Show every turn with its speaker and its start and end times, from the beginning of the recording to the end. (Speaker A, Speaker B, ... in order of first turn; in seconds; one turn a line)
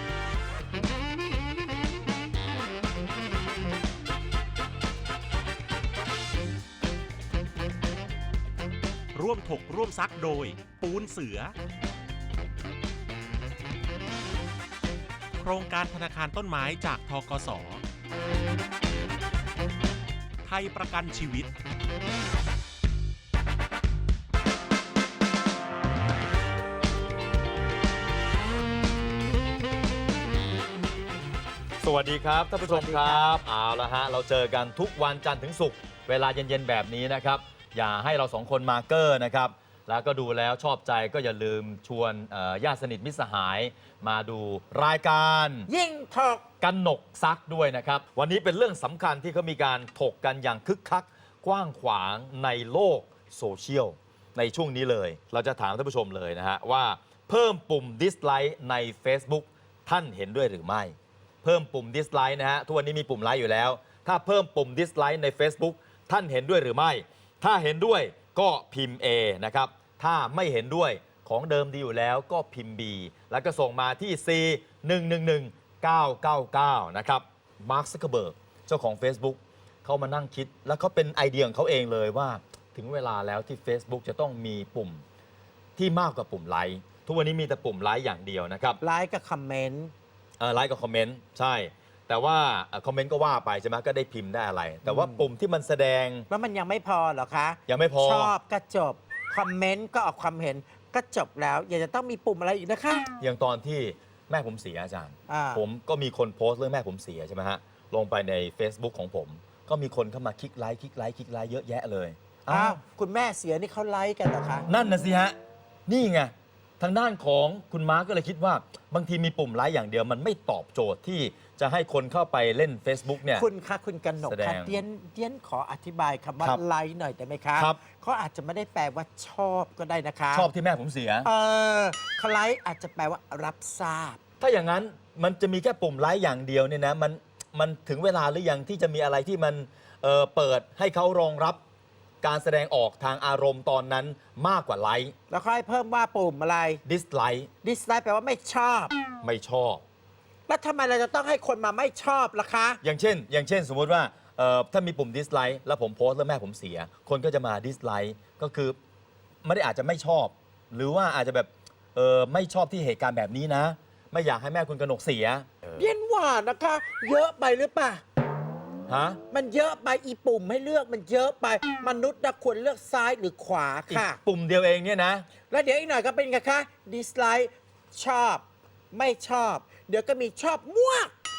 Speaker A: 9.1-11.5
Speaker A: 15.3-17.8
Speaker A: 20.4-21.5
Speaker B: 31.8-45.7
Speaker C: 32.6-33.3
Speaker C: 45.7-46.5
Speaker B: 46.6-85.0
Speaker B: 85.8-88.8
Speaker C: 88.8-89.9
Speaker B: 90.4-96.3
Speaker C: 94.8-95.3
Speaker C: 96.3-103.1
Speaker B: 97.7-98.3
Speaker B: 103.2-112.8
Speaker C: 105.3-105.6
Speaker C: 112.5-114.7
Speaker B: 114.7-115.4
Speaker B: 115.9-123.5
Speaker C: 123.3-130.5
Speaker B: 124.2-124.8
Speaker B: 130.3-131.3
Speaker C: 131.2-134.2
Speaker B: 134.4-141.6
Speaker B: 142.2-145.1
Speaker C: 145.3-146.8
Speaker B: 146.8-147.5
Speaker C: 147.6-148.9
Speaker B: 149.2-149.8
Speaker C: 150.5-152.8
Speaker B: 152.8-158.8
Speaker B: 159.4-165.9
Speaker C: 165.8-168.0
Speaker B: 168.9-169.2
Speaker C: 169.3-174.2
Speaker B: 173.9-175.3
Speaker C: 175.5-181.1